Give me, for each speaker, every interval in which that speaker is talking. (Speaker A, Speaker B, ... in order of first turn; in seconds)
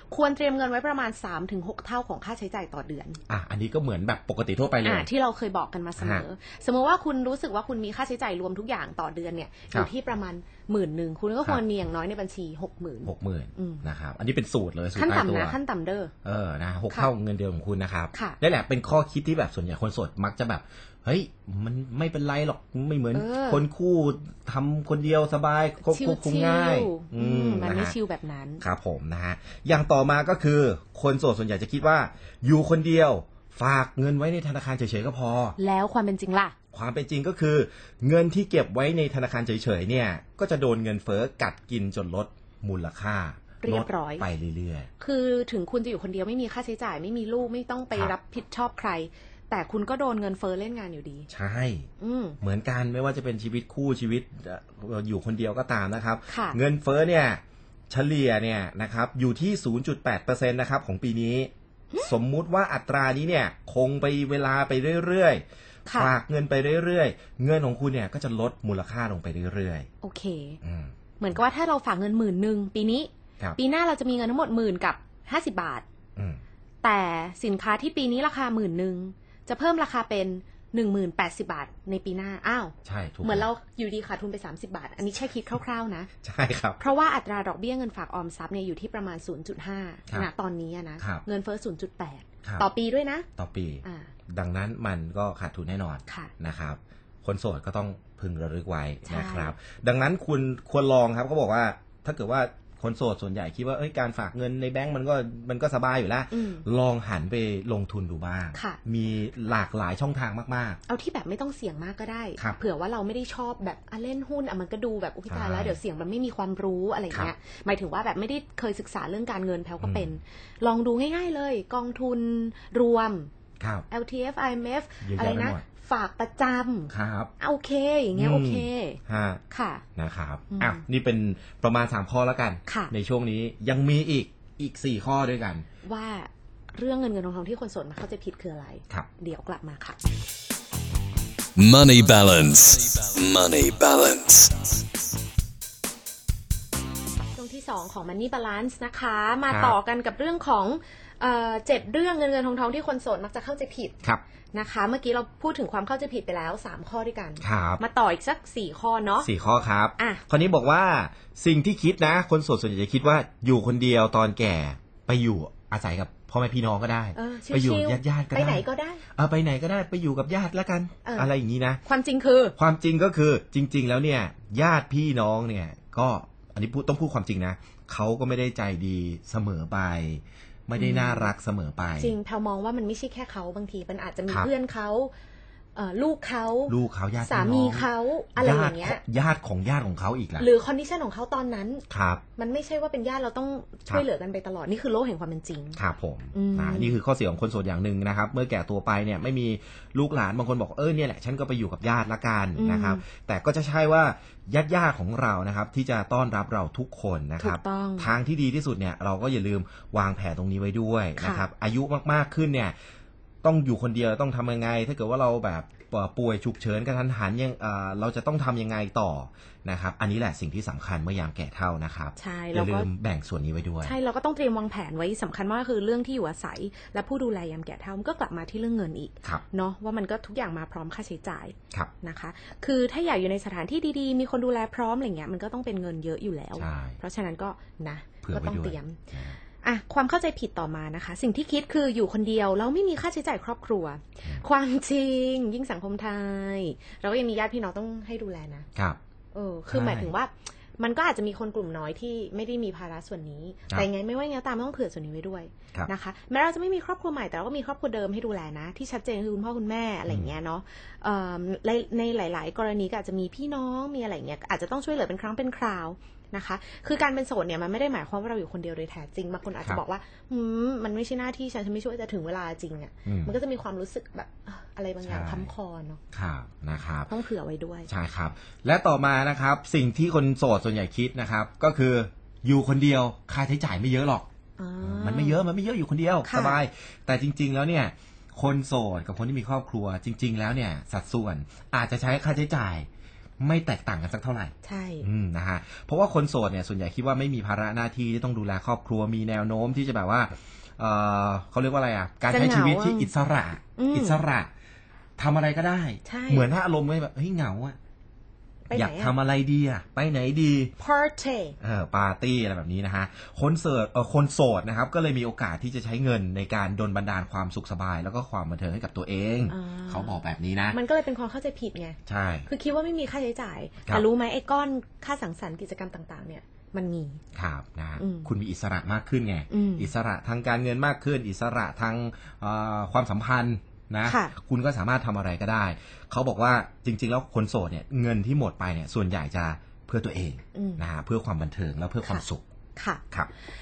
Speaker A: 0.1-3.2, 4.8-13.8, 14.9-16.1, 18.1-18.4, 23.1-23.6, 25.8-28.6, 35.6-36.5, 43.6-44.3, 45.0-51.3, 52.0-52.4, 56.3-56.6, 65.9-66.1, 70.0-70.6, 71.2-75.8, 76.8-86.1, 86.8-93.2, 93.8-94.1, 96.1-96.3, 99.0-99.5, 106.3-106.7, 108.5-108.8, 110.9-123.3, 123.9-129.8, 130.5-130.8, 132.7-132.9, 135.8-140.0, 147.3-153.9, 154.5-159.3, 167.1-169.0, 171.0-171.3, 171.8-172.5, 180.8-181.3, 182.0-185.1, 185.7-189.0, 190.4-191.8, 192.3-195.8, 196.3-196.9, 202.6-203.0, 207.4-208.1, 211.2-211.5, 222.2-222.9, 223.8-239.1, 239.6-248.7, 249.3-276.0, 277.1-277.9, 284.6-285.4, 286.2-286.6, 294.6-295.1, 302.3-303.1, 303.8-304.2, 306.0-306.5, 308.7-309.1, 310.8-311.6, 319.5-327.2, 328.0-328.3, 329.5-329.9, 334.0-334.3, 340.5-340.9, 342.8-343.0
Speaker B: 3.3-5.1, 6.0-6.2, 13.1-15.6, 16.2-27.9, 28.6-35.6, 36.7-44.9, 51.3-51.9, 52.4-69.9, 70.6-70.9, 76.2-76.4, 82.8-83.5, 86.2-86.8, 91.0-91.2, 93.4-110.8, 115.3-115.8, 119.8-120.2, 123.6-123.9, 125.0-125.6, 126.9-127.3, 128.1-129.4, 129.9-135.6, 149.5-149.8, 157.4-157.8, 159.2-171.8, 172.6-182.2, 186.7-190.5, 191.9-192.2, 195.8-212.8, 213.4-223.9, 236.6-237.0, 238.2-239.4, 249.7-250.1, 260.1-260.3, 273.1-273.4, 275.0-275.5, 276.1-277.1, 277.9-284.3, 284.8-292.9, 293.4-304.5, 305.2-307.8, 308.7-310.7, 311.6-320.8, 322.1-322.5, 327.3-342.4
Speaker C: 141.6-144.6